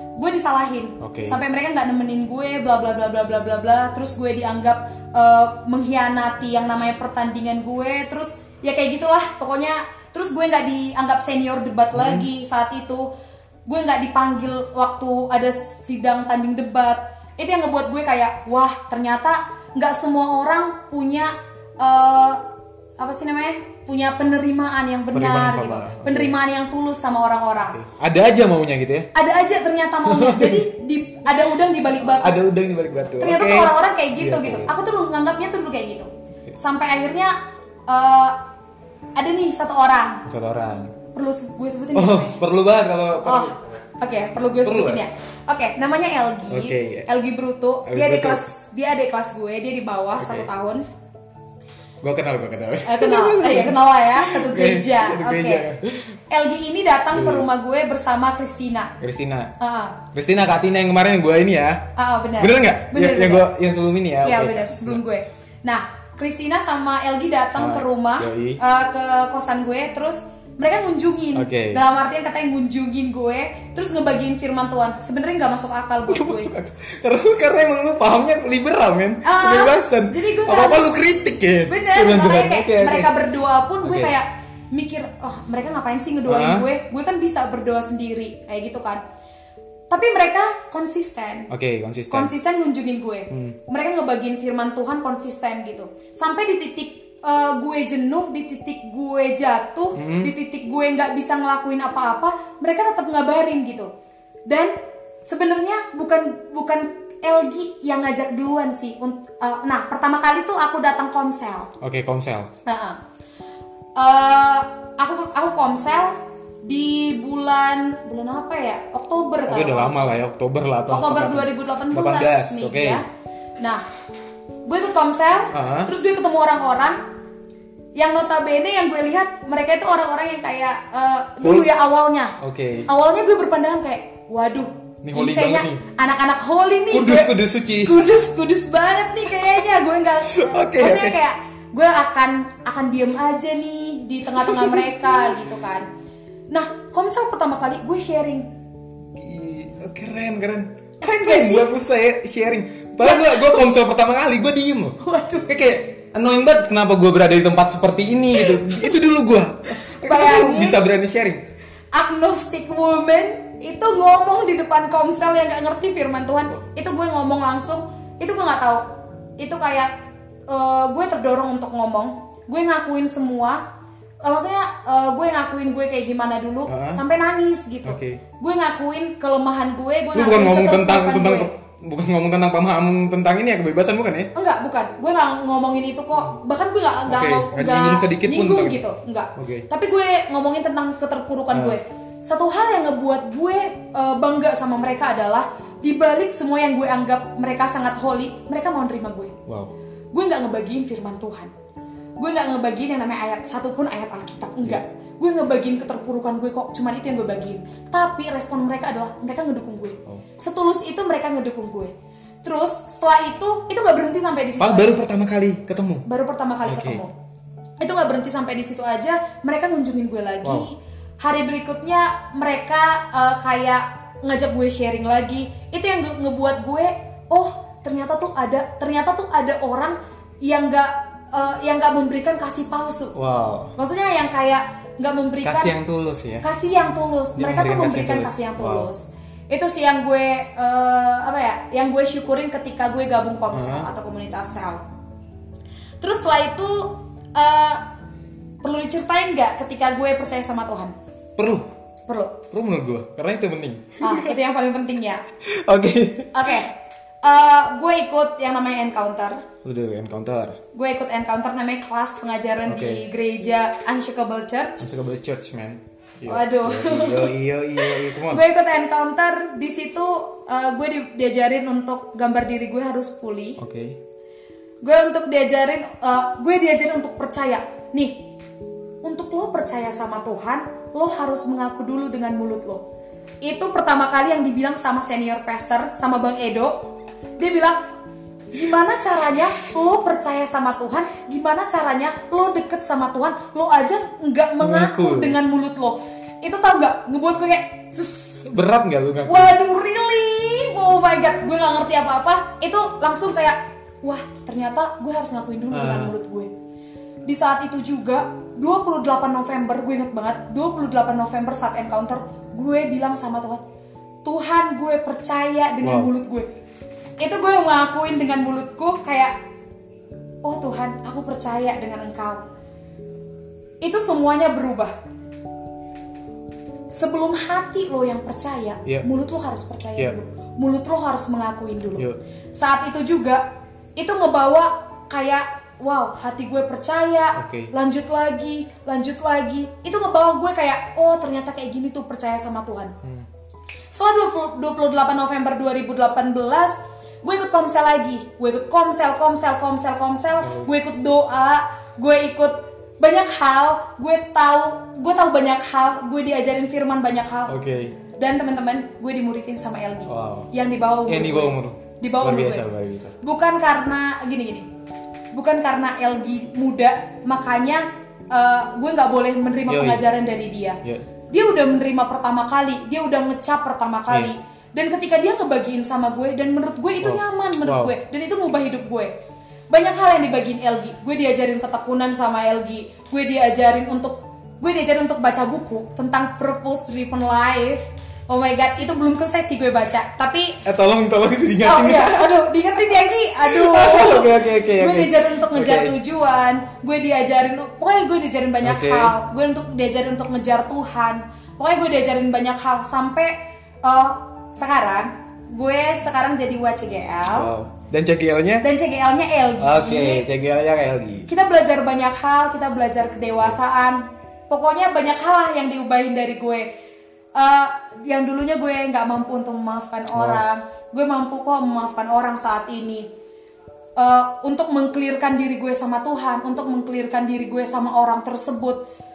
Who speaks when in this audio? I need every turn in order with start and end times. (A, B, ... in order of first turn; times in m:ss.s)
0:00.2-0:13.1 A
0:01.0-0:01.4 B
0:11.9-0:12.3 B
0:13.7-0:22.4 A
0:23.0-0:27.8 A
0:25.1-0:26.4 B
0:27.7-0:29.1 B
0:29.1-0:32.4 A
0:30.0-0:30.7 B
0:32.0-0:34.7 B
0:33.2-0:37.4 A
0:37.9-0:38.4 A
0:39.2-0:40.3 A
0:40.3-0:40.9 B
0:41.1-0:42.4 A
0:41.9-0:43.6 B
0:43.2-0:50.9 A
0:44.6-0:45.0 B
0:46.5-0:47.1 B
0:47.9-0:48.5 B
0:50.2-0:50.5 B
0:52.0-0:56.2 B
0:52.8-0:55.6 A
0:56.3-0:59.0 A
0:57.1-0:57.5 B
0:59.0-0:59.5 B
0:59.6-1:00.0 A
1:00.1-1:05.0 B
1:02.0-1:03.5 A
1:04.2-1:16.5 A
1:07.6-1:08.6 B
1:11.4-1:11.8 B
1:16.1-1:23.1 B
1:19.2-1:20.9 A
1:21.7-1:29.0 A
1:23.8-1:24.2 B
1:26.3-1:26.7 B
1:29.9-1:31.5 A
1:31.5-1:32.3 B
1:32.1-1:43.9 A
1:33.3-1:33.6 B
1:40.0-1:40.3 B
1:44.5-1:44.7 A
1:45.2-1:51.7 A
1:51.8-1:52.5 B
1:52.7-1:53.0 A
1:54.0-2:00.2 A
1:59.5-2:03.0 B
2:00.9-2:03.0 A
2:04.7-2:07.0 A
2:05.5-2:05.9 B
2:08.0-2:12.4 A
2:11.4-2:11.7 B
2:12.4-2:12.9 B
2:12.9-2:25.9 A
2:15.0-2:15.8 B
2:16.9-2:18.0 B
2:20.3-2:21.2 B
2:24.4-2:25.4 B
2:26.5-2:28.5 A
2:29.2-2:41.4 B
2:31.0-2:31.7 A
2:33.0-2:33.6 A
2:35.0-2:35.5 A
2:40.0-2:40.8 A
2:41.9-2:48.9 A
2:49.4-2:49.9 A
2:50.5-2:53.6 A
2:54.2-3:01.5 A
2:56.7-2:57.0 B
2:57.8-2:58.2 B
3:00.1-3:04.3 B
3:04.3-3:19.3 A
3:07.1-3:08.8 B
3:09.4-3:09.7 B
3:11.5-3:11.8 B
3:19.5-3:19.7 B
3:20.1-3:21.5 A
3:22.2-3:31.9 A
3:32.4-3:35.0 A
3:34.6-3:36.0 B
3:36.1-3:37.1 A
3:36.7-3:37.0 B
3:37.8-3:53.2 A
3:40.4-3:40.7 B
3:53.2-3:53.7 B
3:53.8-3:55.8 A
3:55.4-3:56.5 B
3:56.4-4:04.8 A
3:57.4-3:58.9 B
4:03.5-4:03.9 B
4:06.0-4:07.8 A
4:08.6-4:10.9 A
4:11.4-4:11.7 B
4:12.1-4:12.4 A
4:12.5-4:14.4 B
4:14.0-4:15.2 A
4:15.4-4:16.6 B
4:16.3-4:19.5 A
4:19.6-4:20.6 B
4:20.7-4:24.9 A
4:22.6-4:23.1 B
4:24.8-4:28.4 B
4:26.3-4:33.6 A
4:33.6-4:34.0 B
4:34.8-4:38.3 A
4:39.0-4:42.8 A
4:43.4-4:46.9 A
4:47.4-4:47.9 A
4:48.5-4:58.5 A
4:54.6-4:55.4 B
4:58.5-4:59.6 B
4:59.2-5:06.5 A
5:05.7-5:06.1 B
5:07.3-5:13.6 A
5:14.2-5:16.5 A
5:15.8-5:16.1 B
5:17.2-5:19.4 A
5:20.4-5:22.4 A
5:23.8-5:24.9 A
5:26.9-5:33.4 A
5:34.0-5:42.9 A
5:37.4-5:37.7 B
5:43.9-5:57.5 A
5:50.4-5:50.7 B
5:57.5-5:58.0 B
5:58.2-6:02.6 A
6:00.1-6:00.5 B
6:01.1-6:03.2 B
6:03.2-6:04.7 A
6:05.3-6:19.1 A
6:09.7-6:10.1 B
6:17.0-6:17.9 B
6:19.7-6:30.6 A
6:30.6-6:36.0 B
6:31.6-6:47.5 A
6:38.6-6:39.2 B
6:47.3-6:48.7 B
6:48.6-6:50.3 A
6:49.6-6:51.3 B
6:51.3-6:56.7 A
6:57.4-7:03.1 A
7:00.1-7:00.4 B
7:04.0-7:08.8 A